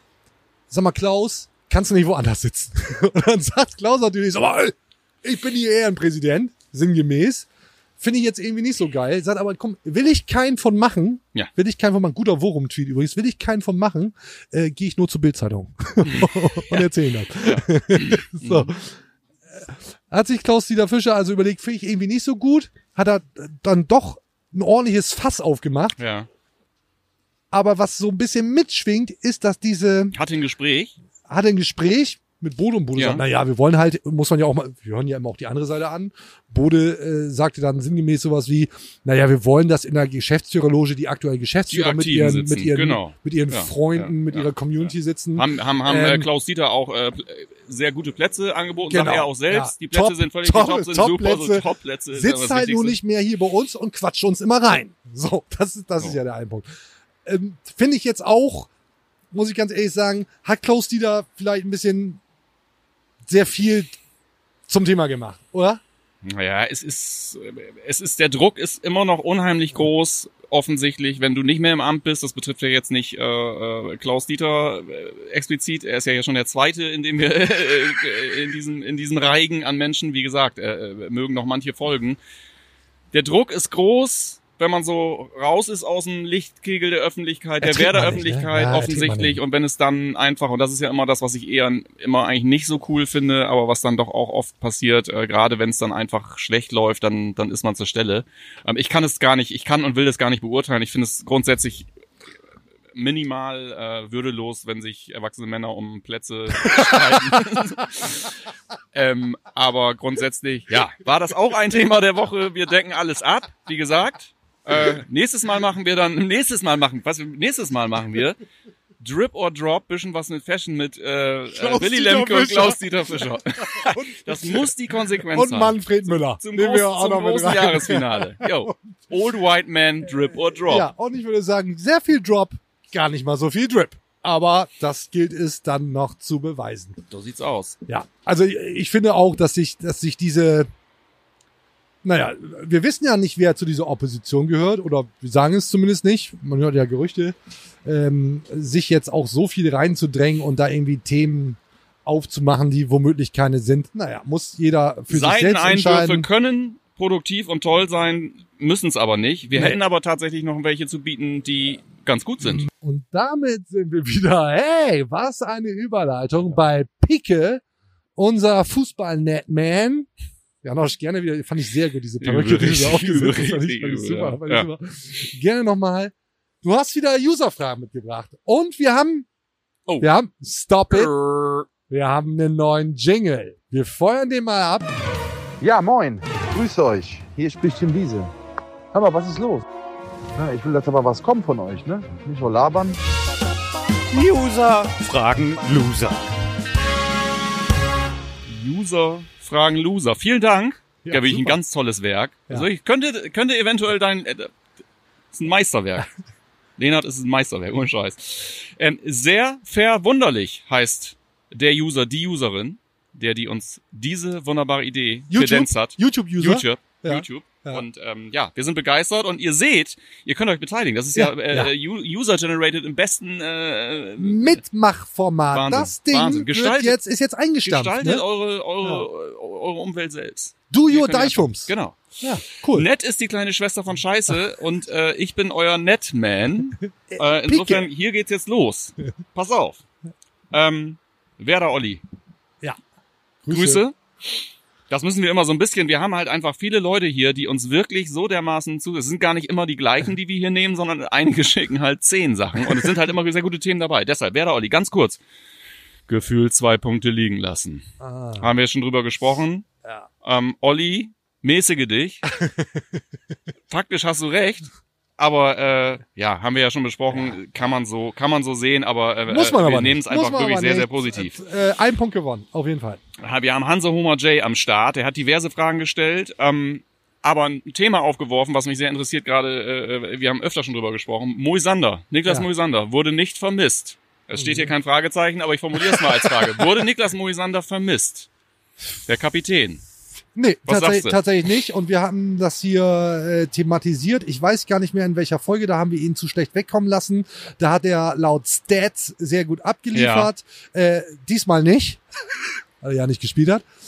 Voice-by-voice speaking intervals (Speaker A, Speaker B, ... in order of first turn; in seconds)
Speaker A: 0.7-7.5, 8.0-18.9, 19.6-26.0, 27.5-30.1, 31.3-46.3, 48.9-56.7, 57.2-58.7, 59.3-62.2, 63.3-63.9, 64.7-65.8, 87.6-89.4, 121.5-122.9, 123.6-124.7, 125.3-128.7, 130.7-137.0, 137.9-140.7, 142.0-156.3, 159.5-159.8, 162.4-167.6, 168.2-170.1, 170.6-179.2, 180.0-181.1, 181.9-184.9, 201.0-201.6, 215.3-217.8, 221.2-221.7, 224.2-228.2, 230.7-232.8, 237.1-237.9, 243.4-243.8, 258.0-258.5, 262.4-262.6, 267.1-267.4, 269.3-273.0, 284.4-284.7, 285.8-286.4, 290.4-302.0, 302.8-303.6
Speaker B: 16.1-16.9, 17.4-18.7, 26.0-26.3, 30.1-30.9, 33.0-33.2, 41.7-53.0, 66.2-82.2, 83.1-101.9, 102.9-108.3, 108.9-118.4, 119.0-130.9, 137.1-137.8, 155.1-162.6, 172.2-174.7, 180.9-181.7, 198.5-204.5, 205.3-206.1, 206.8-224.6, 225.5-227.0, 227.6-232.0, 232.7-239.8, 240.5-242.0, 243.5-243.9, 244.9-255.2, 256.1-257.9, 258.4-259.7, 260.2-262.2, 263.7-271.4, 273.2-288.3, 289.1-289.8, 290.7-291.2, 299.9-300.3
Speaker C: 185.6-188.3, 188.9-189.7, 190.3-193.0, 194.1-196.3